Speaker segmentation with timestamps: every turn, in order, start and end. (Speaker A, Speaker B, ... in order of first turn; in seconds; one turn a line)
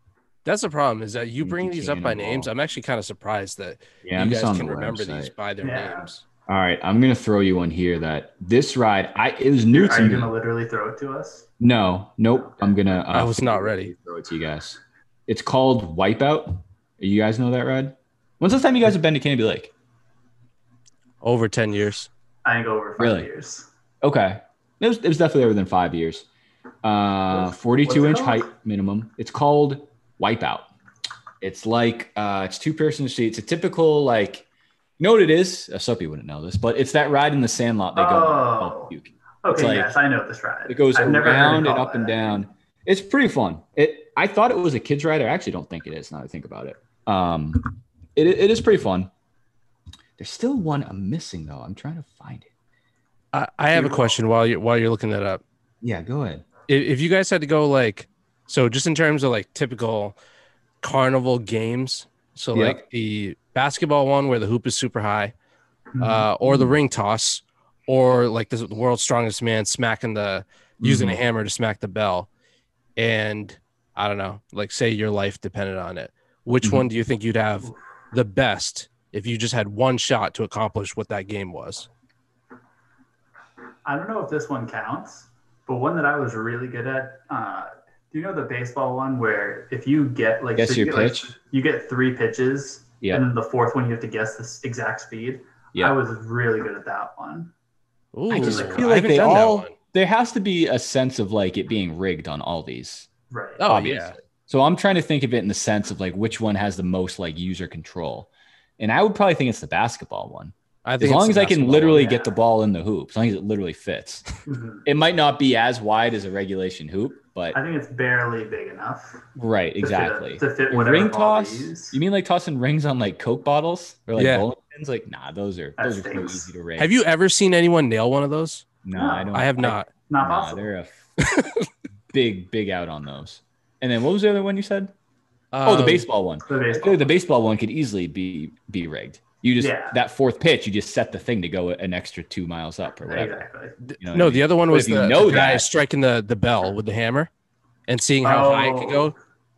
Speaker A: 0.4-6.2
Speaker B: 1.4-2.5
Speaker B: 4.0-5.3
Speaker C: 5.6-6.1
Speaker B: 6.5-10.3
Speaker C: 9.7-11.5
Speaker B: 11.6-19.7
Speaker C: 12.3-12.7
Speaker A: 13.1-13.9
Speaker A: 21.2-22.1
Speaker C: 22.4-23.7
Speaker B: 23.0-23.3
Speaker B: 24.0-26.2
Speaker B: 26.8-30.7
Speaker C: 27.3-28.5
Speaker B: 31.4-34.4
Speaker B: 35.0-40.0
Speaker C: 37.9-38.9
Speaker C: 39.4-42.4
Speaker B: 40.7-49.1
Speaker B: 50.2-52.5
Speaker A: 53.3-55.4
Speaker B: 53.7-54.1
Speaker B: 55.8-56.4
Speaker A: 56.7-60.1
Speaker A: 60.8-65.3
Speaker B: 62.5-62.8
Speaker C: 65.9-66.3
Speaker A: 66.0-72.3
Speaker B: 66.4-66.7
Speaker B: 70.8-71.2
Speaker A: 73.0-81.9
Speaker C: 83.8-97.5
Speaker B: 90.5-91.3
Speaker A: 98.1-99.7
Speaker B: 98.3-103.1
Speaker C: 98.3-99.4
Speaker C: 103.3-103.8
Speaker A: 103.6-104.2
Speaker B: 103.7-114.2
Speaker A: 110.8-112.1
Speaker C: 111.8-112.3
Speaker C: 114.5-114.8
Speaker B: 114.8-117.6
Speaker C: 117.5-119.3
Speaker B: 119.3-126.9
Speaker C: 119.8-122.0
Speaker A: 124.2-124.5
Speaker C: 125.8-126.5
Speaker A: 126.8-128.7
Speaker B: 128.8-131.1
Speaker C: 128.9-129.3
Speaker A: 129.3-129.9
Speaker C: 129.9-130.7
Speaker A: 131.2-131.7
Speaker B: 132.1-134.9
Speaker A: 135.5-136.1
Speaker B: 135.6-145.7
Speaker C: 136.4-137.1
Speaker C: 139.6-140.0
Speaker C: 143.0-143.8
Speaker A: 143.8-147.3
Speaker A: 147.9-149.1
Speaker C: 148.2-149.2